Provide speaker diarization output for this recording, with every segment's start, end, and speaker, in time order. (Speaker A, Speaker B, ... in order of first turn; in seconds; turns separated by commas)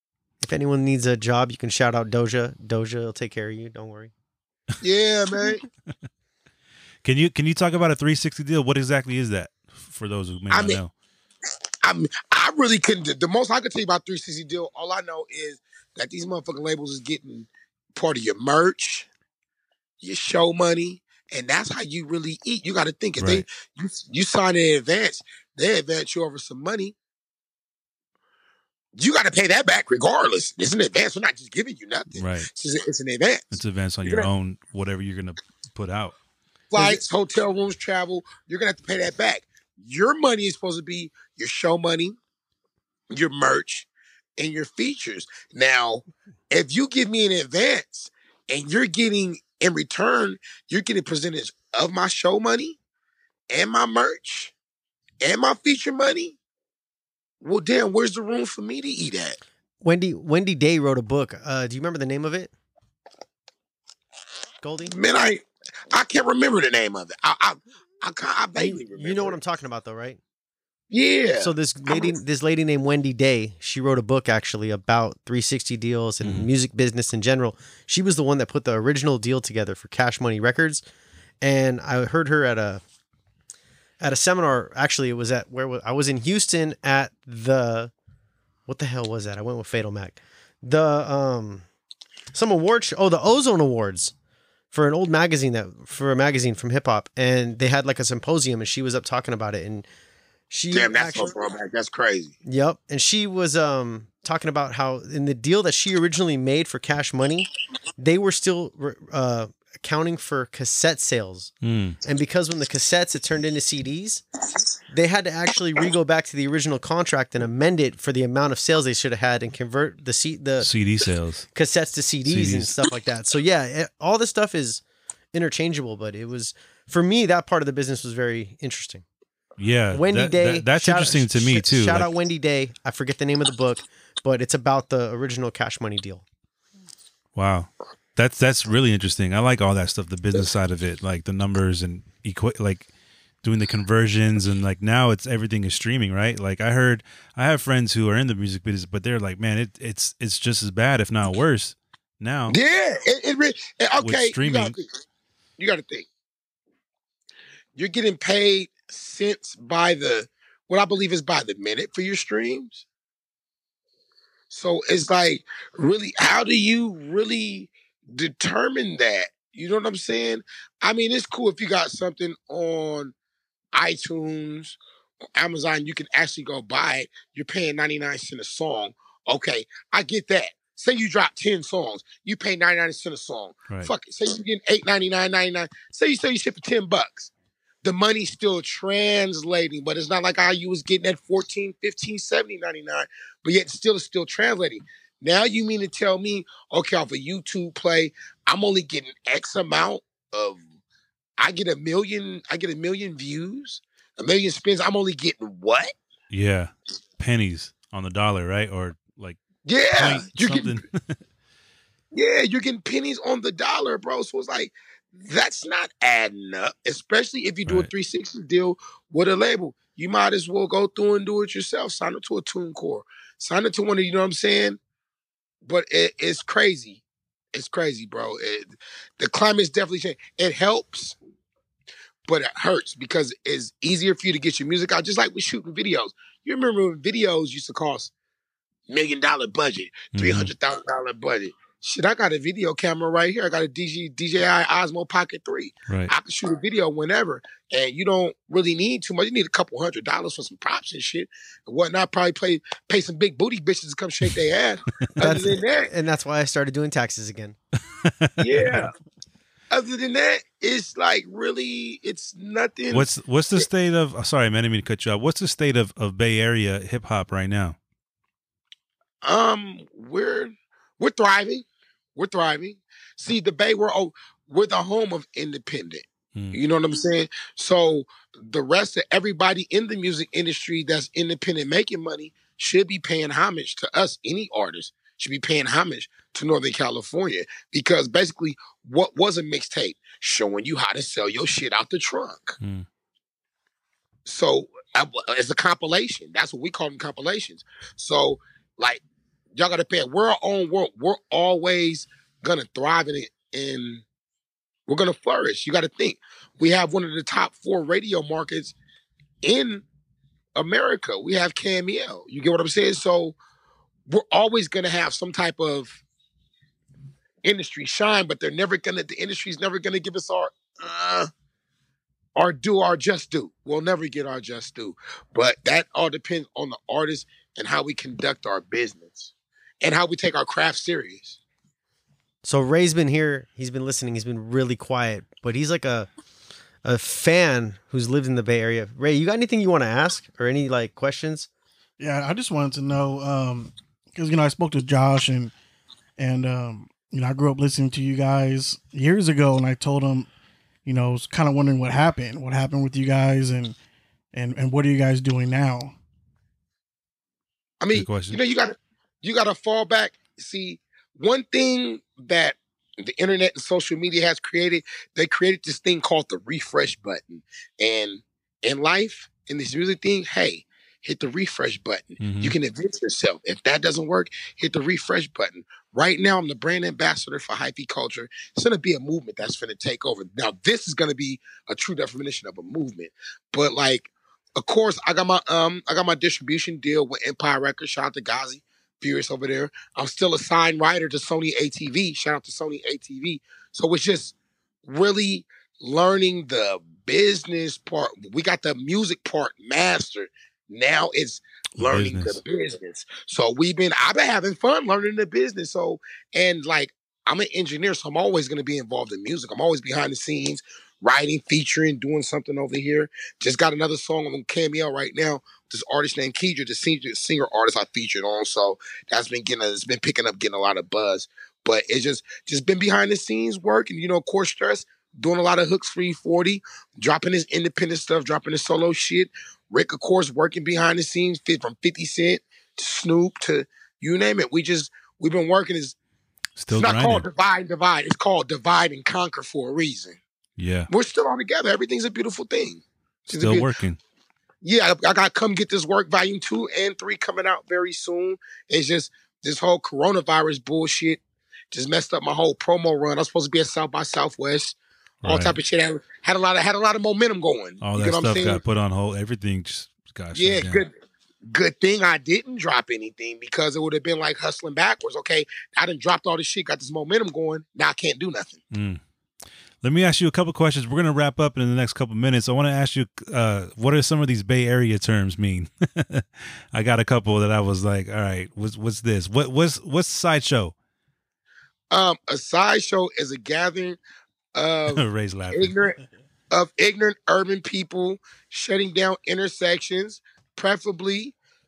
Speaker A: 0.5-4.1, Speaker B: 4.8-5.6, Speaker C: 7.0-10.9, Speaker B: 10.5-10.8, Speaker B: 11.8-19.1, Speaker B: 20.0-26.9, Speaker C: 23.2-23.4, Speaker B: 28.9-33.5, Speaker C: 32.1-32.5, Speaker C: 33.5-36.1, Speaker B: 36.7-42.2, Speaker B: 43.1-52.8, Speaker B: 53.5-54.5, Speaker B: 55.2-56.4, Speaker B: 57.4-59.4, Speaker A: 59.8-62.5, Speaker A: 64.6-65.0, Speaker B: 64.9-69.4, Speaker A: 68.6-70.2, Speaker B: 70.9-72.2, Speaker A: 71.4-80.8, Speaker C: 76.2-76.5, Speaker A: 81.4-82.8, Speaker A: 84.0-87.9, Speaker A: 88.7-91.7, Speaker A: 92.3-94.1, Speaker A: 94.7-99.9, Speaker A: 100.5-101.3, Speaker B: 100.7-102.3, Speaker A: 102.5-111.5, Speaker C: 111.6-112.0, Speaker A: 112.0-114.2, Speaker A: 114.9-120.7, Speaker C: 120.6-121.5, Speaker A: 121.5-129.0, Speaker C: 122.3-122.8, Speaker C: 129.6-132.1, Speaker A: 129.9-136.2, Speaker C: 137.4-142.9, Speaker C: 143.4-152.6, Speaker B: 152.5-154.9, Speaker C: 154.0-154.8, Speaker B: 155.6-156.1, Speaker B: 157.8-162.8, Speaker B: 164.5-173.1, Speaker B: 173.7-174.8, Speaker B: 175.4-187.3, Speaker B: 187.8-200.6, Speaker B: 201.4-205.9, Speaker C: 206.3-211.2, Speaker B: 209.7-210.8, Speaker B: 212.1-224.8, Speaker B: 225.6-227.0, Speaker B: 227.5-231.2, Speaker B: 232.3-238.1, Speaker B: 238.9-255.9, Speaker C: 240.1-240.5, Speaker A: 255.2-257.6, Speaker C: 258.0-258.9, Speaker B: 258.4-258.9, Speaker B: 259.7-263.6, Speaker C: 262.9-267.8, Speaker B: 269.2-292.6, Speaker C: 292.6-292.9, Speaker B: 294.3-299.0, Speaker B: 299.5-304.0, Speaker B: 304.9-308.8, Speaker B: 309.4-309.9, Speaker B: 310.6-313.4, Speaker B: 314.1-316.0, Speaker B: 317.4-321.3, Speaker B: 322.4-331.4, Speaker A: 332.4-336.1, Speaker A: 336.8-341.5, Speaker D: 342.0-345.5, Speaker D: 346.2-350.3, Speaker D: 350.9-353.8, Speaker D: 354.3-356.0, Speaker B: 357.8-394.3, Speaker C: 357.9-358.4, Speaker C: 372.2-372.6, Speaker B: 394.9-436.0, Speaker C: 401.8-402.4, Speaker C: 436.6-437.3, Speaker B: 436.7-440.2, Speaker C: 440.6-440.9, Speaker B: 440.9-443.7, Speaker C: 443.3-444.0, Speaker B: 444.6-451.2, Speaker B: 451.7-458.6, Speaker C: 455.2-455.6, Speaker C: 457.8-460.9, Speaker B: 460.3-460.9, Speaker B: 461.5-468.6, Speaker C: 468.7-469.0, Speaker C: 469.8-480.7, Speaker B: 481.9-484.0, Speaker B: 484.6-486.0, Speaker C: 484.9-485.8, Speaker B: 486.5-491.4